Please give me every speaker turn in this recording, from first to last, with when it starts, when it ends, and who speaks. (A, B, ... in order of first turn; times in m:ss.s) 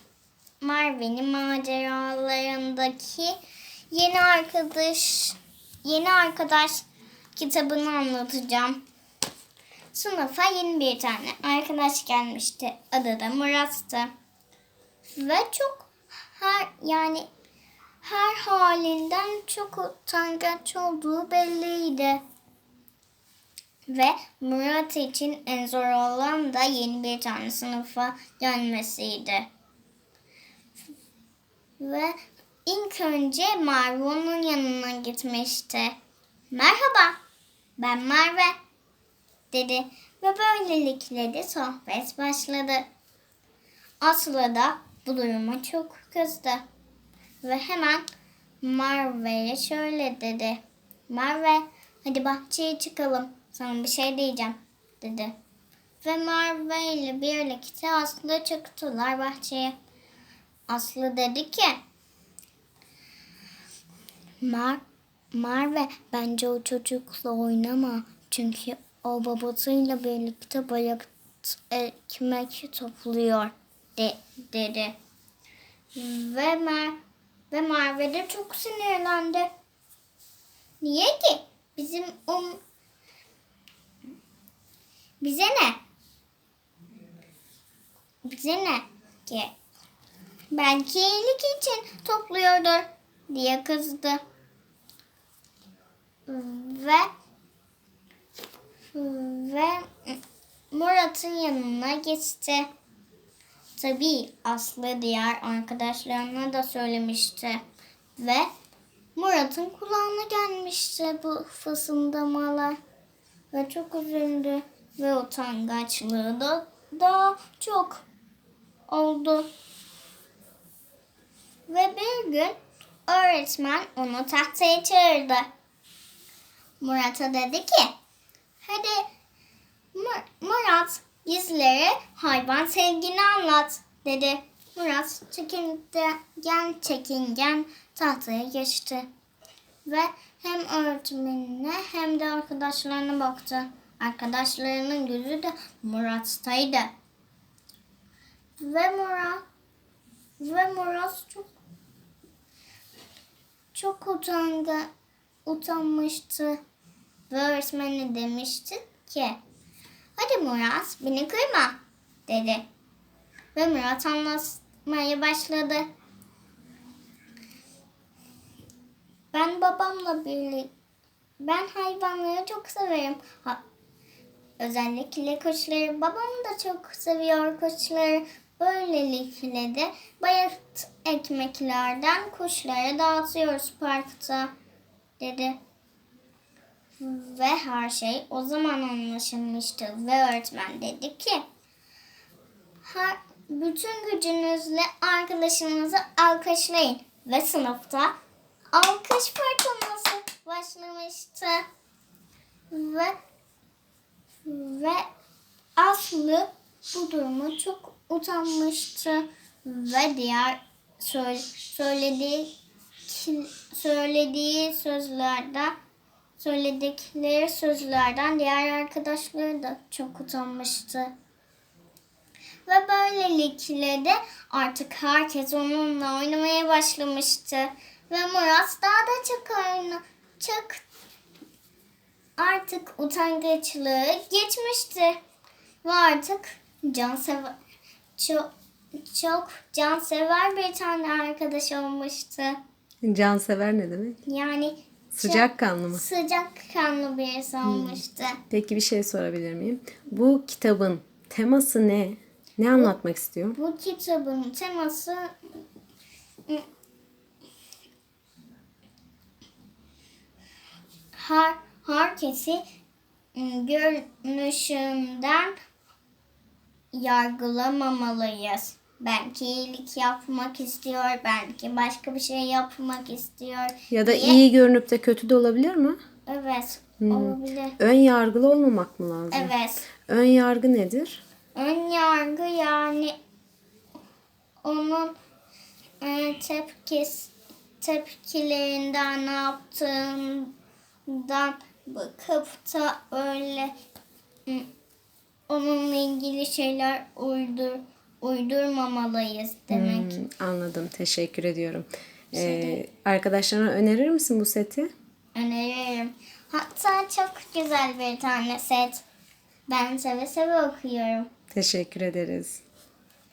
0:00.6-0:03.4 A
0:03.9-0:06.8 A
0:07.4-0:08.8 A
0:09.9-0:14.1 A
0:15.2-0:17.2 A
0:18.0-0:22.2 A
0:23.9-0:29.5 A
0:31.8-0:36.0 A
0:36.5-0:37.2 A
0:37.8-0:38.6 A
0:39.5-0:42.8 A
0:44.0-0:46.6 A
0:47.4-0:48.0 A
0:48.6-0:55.3 A
0:56.0-0:59.7 A
1:00.7-1:01.8 A
1:04.4-1:14.9 A
1:15.9-1:17.0 A
1:17.5-1:19.5 A
1:20.8-1:22.6 A
1:25.2-1:25.8 A
1:28.2-1:29.5 A
1:30.5-1:34.2 A
1:36.3-1:37.1 A
1:38.9-1:40.2 A
1:40.7-1:42.7 A
1:43.8-1:47.6 A
1:48.2-1:48.5 A
1:49.2-1:52.8 A
1:53.5-1:58.0 A
1:58.9-1:59.5 A
2:01.7-2:02.6 A
2:03.1-2:05.5 A
2:06.8-2:07.9 A
2:08.6-2:09.1 A
2:09.9-2:19.1 A
2:19.8-2:26.9 A
2:28.6-2:29.4 A
2:30.4-2:31.5 A
2:33.7-2:34.9 A
2:35.4-2:36.6 A
2:37.3-2:39.4 A
2:40.2-2:42.6 A
2:43.5-2:45.8 A
2:49.3-2:50.7 A
2:51.4-2:53.6 A
2:54.6-3:04.5 A
3:05.2-3:05.6 A
3:07.0-3:11.4 A
3:12.8-3:18.1 A
3:18.7-3:21.6 A
3:22.7-3:23.1 A
3:24.4-3:25.1 A
3:25.8-3:32.5 A
3:33.1-3:35.8 A
3:36.4-3:41.1 A
3:42.7-3:50.8 A
3:52.4-3:55.2 A
3:55.8-3:57.5 A
3:58.2-3:58.5 A
3:59.0-4:02.6 A
4:03.0-4:04.2 B
4:04.2-4:08.4 A
4:05.1-4:06.0 B
4:07.6-4:13.6 B
4:13.6-4:15.3 A
4:21.1-4:22.6 A
4:23.3-4:25.5 A
4:26.9-4:34.4 A
4:33.9-4:36.0 B
4:36.3-4:37.8 A
4:37.0-4:39.5 B
4:39.3-4:39.8 A
4:40.1-4:41.2 B
4:41.6-4:43.1 A
4:44.6-4:45.1 A
4:46.0-4:50.5 A
4:51.1-4:53.7 A
4:55.5-5:00.2 A
4:59.7-5:04.9 B
5:02.3-5:02.8 A
5:05.3-5:09.0 A
5:09.7-5:11.3 A
5:11.5-5:12.6 B